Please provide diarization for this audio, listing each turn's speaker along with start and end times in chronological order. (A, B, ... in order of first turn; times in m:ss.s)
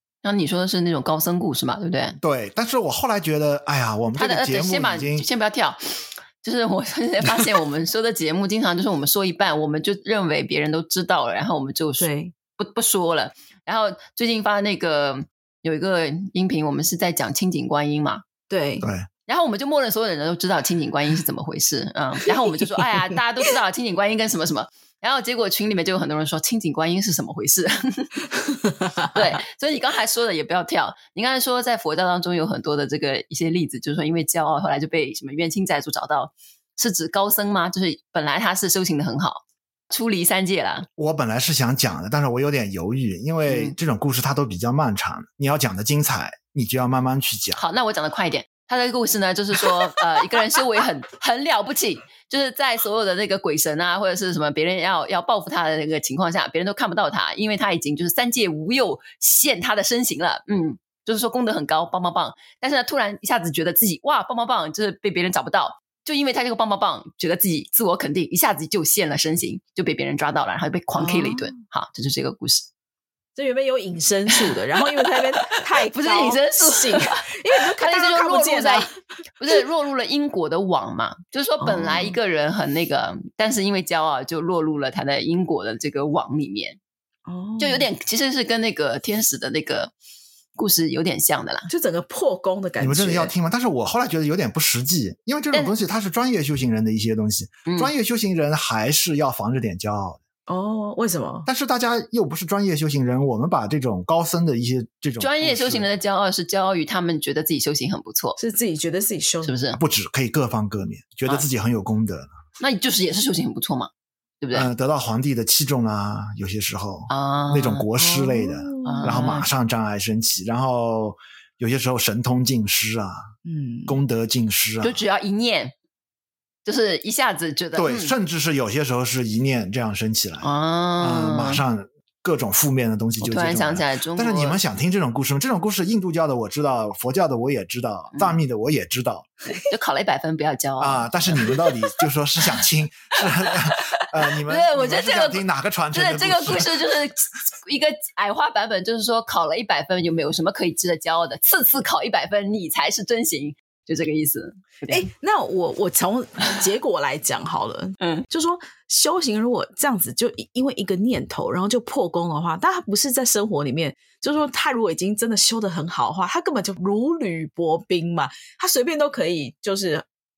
0:00.2-0:02.2 A
0:02.2-0:05.3 B
0:04.2-0:18.2 A
0:12.0-0:12.3 C
0:18.5-0:18.9 C
0:18.8-0:19.1 B
0:19.3-0:28.1 A
0:22.5-0:23.1 C
0:29.1-0:40.9 A
0:41.0-0:47.6 B
0:43.5-0:43.8 A
0:47.5-1:12.7 A
1:10.9-1:11.6 C
1:13.4-1:19.0 C
1:14.3-1:26.8 A
1:21.6-1:22.2 C
1:27.3-1:27.9 C
1:27.6-1:29.9 A
1:30.6-1:31.7 A
1:31.7-1:33.3 C
1:32.8-1:40.2 B
1:37.7-1:37.9 A
1:40.5-1:41.5 C
1:41.5-1:45.9 B
1:45.2-1:48.4 A
1:48.4-1:49.6 C
1:49.4-1:49.8 A
1:49.8-1:52.3 B
1:52.6-1:53.9 A
1:54.4-1:54.7 A
1:54.5-2:03.3 B
1:57.1-1:57.9 A
1:58.0-1:59.2 C
1:58.8-1:59.5 A
2:03.4-2:04.0 C
2:03.9-2:05.0 B
2:04.8-2:05.7 A
2:06.6-2:08.2 A
2:07.8-2:10.5 B
2:10.4-2:11.6 A
2:11.0-2:19.3 B
2:13.2-2:14.6 A
2:18.1-2:18.4 A
2:19.6-2:21.8 A
2:20.8-2:26.8 B
2:23.4-2:35.1 A
2:34.9-2:50.1 C
2:38.0-2:38.3 A